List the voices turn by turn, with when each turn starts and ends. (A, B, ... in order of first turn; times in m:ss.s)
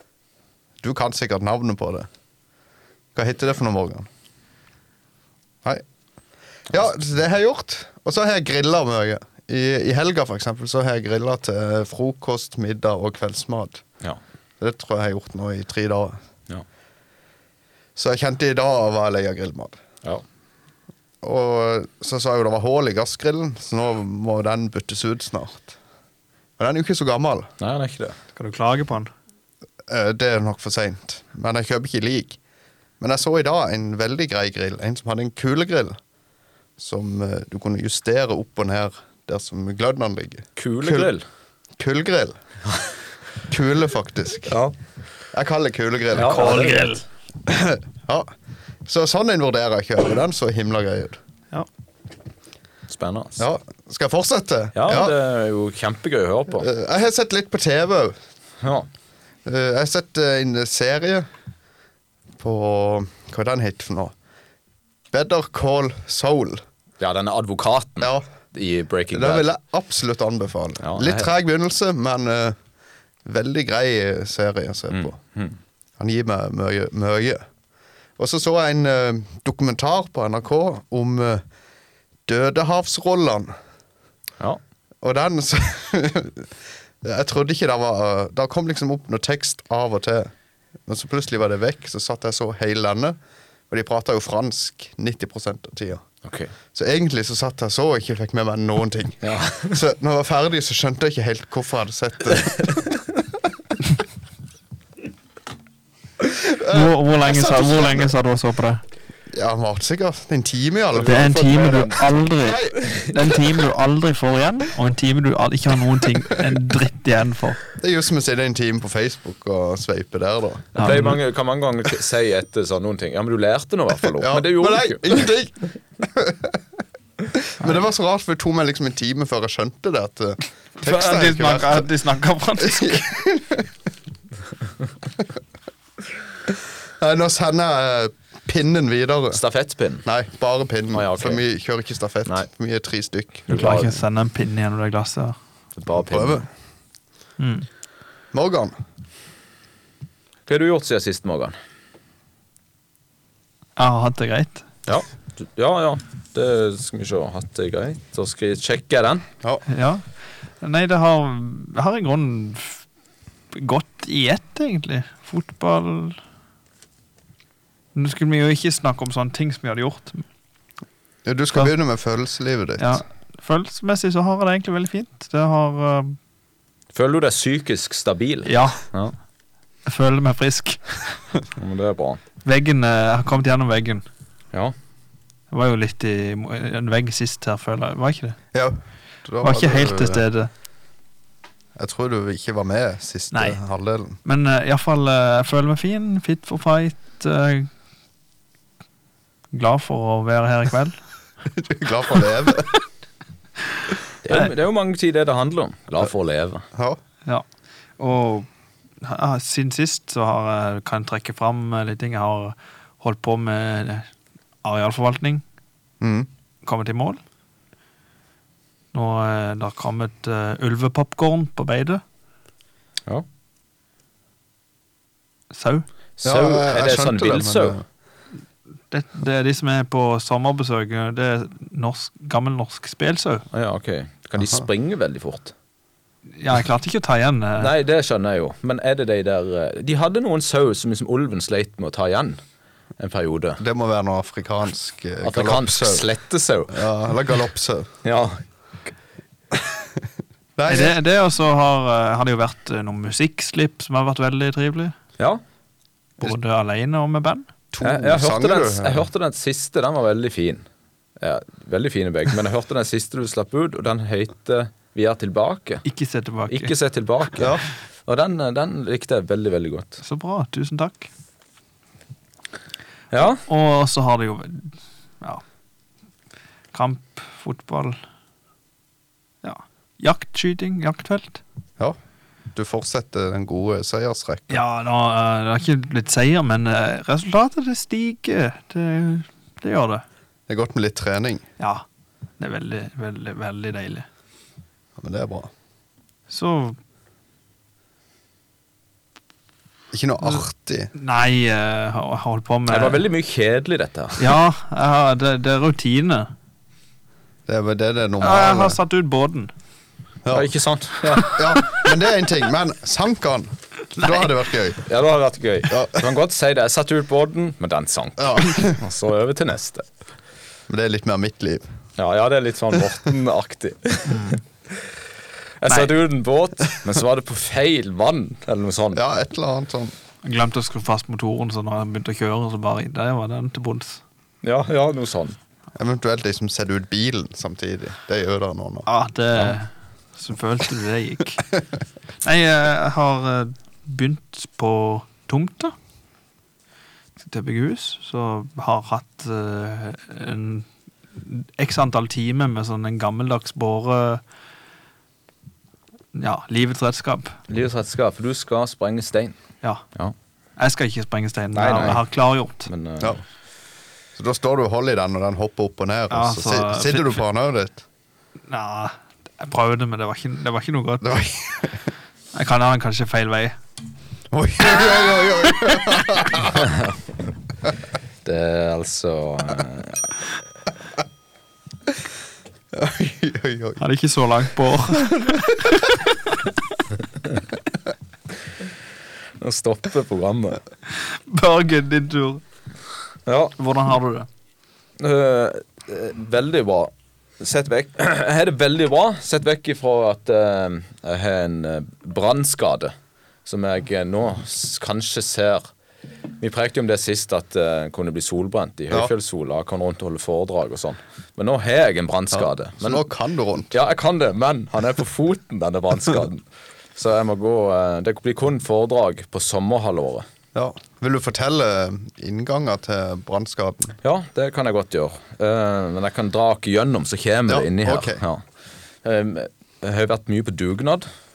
0:00.8-0:02.1 A
0:03.1-0:04.1 A
0:06.7-0:13.8 A
0:14.6-0:16.2 A
0:18.0-0:19.8 A
0:21.2-0:25.8 A
0:26.6-0:27.5 A
0:27.6-0:28.1 B
0:28.4-0:29.1 C
0:29.9-0:32.4 A
0:33.0-0:36.0 A
0:36.8-0:41.1 A
0:40.6-0:41.2 B
0:41.8-0:42.4 A
0:43.5-0:44.6 A
0:44.5-0:44.7 B
0:45.3-0:46.9 A
0:46.1-0:47.0 B
0:46.2-0:47.0 C
0:47.5-0:48.3 A
0:48.8-0:51.2 A
0:52.9-0:53.4 B
0:53.4-0:55.1 A
0:54.7-0:56.6 B
0:56.5-0:58.2 A
0:58.6-0:58.9 B
0:59.4-1:01.3 A
1:02.4-1:04.1 A
1:05.1-1:06.6 A
1:07.0-1:09.5 B
1:08.0-1:08.3 A
1:09.1-1:12.6 A
1:10.8-1:11.3 B
1:13.2-1:15.1 A
1:14.9-1:15.6 B
1:16.0-1:17.4 A
1:18.2-1:21.4 A
1:22.3-1:23.5 A
1:25.0-1:26.5 A
1:27.0-1:30.3 A
1:30.9-1:33.2 A
1:33.7-1:36.0 A
1:36.2-1:36.5 B
1:36.7-1:43.0 A
1:39.2-1:39.8 B
1:46.3-1:48.1 A
1:46.7-1:48.8 C
1:49.3-1:51.5 A
1:51.0-1:57.6 C
1:51.2-1:52.0 B
1:52.4-1:52.8 A
1:57.8-2:01.1 A
2:00.8-2:05.1 B
2:00.8-2:01.1 C
2:04.1-2:06.5 A
2:07.6-2:11.9 A
2:10.8-2:13.0 C
2:12.6-2:13.7 A
2:16.5-2:19.4 A
2:19.3-2:20.0 B
2:20.0-2:23.4 A
2:20.9-2:21.4 B
2:23.5-2:24.0 B
2:23.5-2:25.4 C
2:25.8-2:26.4 B
2:25.9-2:26.5 A
2:27.4-2:27.6 C
2:28.3-2:28.7 A
2:30.5-2:31.6 B
2:33.8-2:34.7 C
2:34.9-2:39.2 B
2:39.7-2:40.1 C
2:40.6-2:42.8 C
2:43.5-2:46.2 C
2:47.9-2:50.2 C
2:51.2-2:53.0 A
2:52.8-2:56.2 C
2:56.9-2:59.1 B
2:58.4-2:58.8 C
2:59.8-3:00.9 C
3:01.6-3:02.2 B
3:02.4-3:04.0 C
3:05.5-3:08.4 C
3:08.5-3:10.2 A
3:09.4-3:10.5 C
3:11.8-3:14.2 A
3:13.3-3:13.6 C
3:14.2-3:17.7 C
3:19.5-3:21.0 C
3:21.6-3:22.7 A
3:24.2-3:26.6 B
3:26.7-3:27.0 A
3:28.0-3:28.5 C
3:29.0-3:34.1 C
3:34.6-3:35.4 C
3:36.0-3:36.3 A
3:36.6-3:37.2 C
3:38.9-3:42.0 C
3:45.5-3:45.8 C
3:46.2-3:47.8 B
3:46.2-3:47.8 A
3:48.9-3:53.4 C
3:53.5-3:55.5 B
3:54.4-3:54.6 A
3:56.4-3:57.7 C
3:57.6-4:02.4 B
4:03.0-4:03.6 B
4:03.6-4:06.0 A
4:05.2-4:06.8 B
4:06.7-4:07.9 A
4:08.0-4:08.4 B
4:10.6-4:11.0 A
4:10.7-4:14.9 C
4:16.2-4:17.5 C
4:17.7-4:19.1 A
4:17.8-4:20.6 B
4:21.2-4:25.8 B
4:25.8-4:26.7 C
4:26.5-4:30.0 B
4:27.4-4:27.6 A
4:30.0-4:31.1 C
4:33.1-4:33.4 B
4:33.4-4:35.4 C
4:36.7-4:38.0 C
4:39.4-4:41.4 C
4:42.5-4:44.6 A
4:44.5-4:50.0 C
4:50.5-4:51.5 A
4:51.6-4:51.8 C
4:52.4-4:54.0 C
4:55.0-4:55.5 A
4:56.3-4:56.8 C
4:59.9-5:00.9 A
5:00.9-5:03.0 C
5:02.7-5:04.2 B
5:04.2-5:06.3 C
5:07.5-5:08.8 A
5:08.2-5:09.5 C
5:10.3-5:11.4 B
5:11.0-5:14.8 A
5:14.0-5:14.2 C
5:14.8-5:19.8 B
5:15.7-5:16.1 A
5:18.2-5:18.8 A
5:20.7-5:21.6 A
5:22.0-5:24.8 B
5:24.1-5:24.4 C
5:25.6-5:29.0 B
5:28.9-5:29.9 A
5:30.2-5:34.0 C
5:34.4-5:35.4 B
5:35.8-5:38.9 A
5:38.9-5:41.5 C
5:42.2-5:45.7 C
5:47.2-5:54.2 C
5:56.1-5:57.4 C
5:57.5-5:59.4 B
6:00.6-6:02.7 C
6:01.5-6:02.0 B
6:02.6-6:03.2 B
6:04.1-6:07.8 A
6:06.1-6:07.2 C
6:08.5-6:11.1 C
6:11.0-6:11.9 A
6:12.3-6:13.6 C
6:14.3-6:16.7 A
6:16.5-6:16.9 B
6:18.2-6:20.0 B
6:22.7-6:23.8 A
6:23.8-6:25.9 C
6:25.1-6:25.7 A
6:29.4-6:30.6 B
6:31.0-6:32.4 C
6:33.3-6:33.5 B
6:33.6-6:34.3 C
6:35.0-6:42.9 B
6:43.4-6:45.7 B
6:46.4-6:53.0 B
6:52.3-6:53.7 A
6:53.7-6:56.4 B
6:57.0-7:00.2 B
7:00.5-7:04.0 A
7:04.0-7:08.4 B
7:07.5-7:08.2 A
7:09.0-7:11.0 B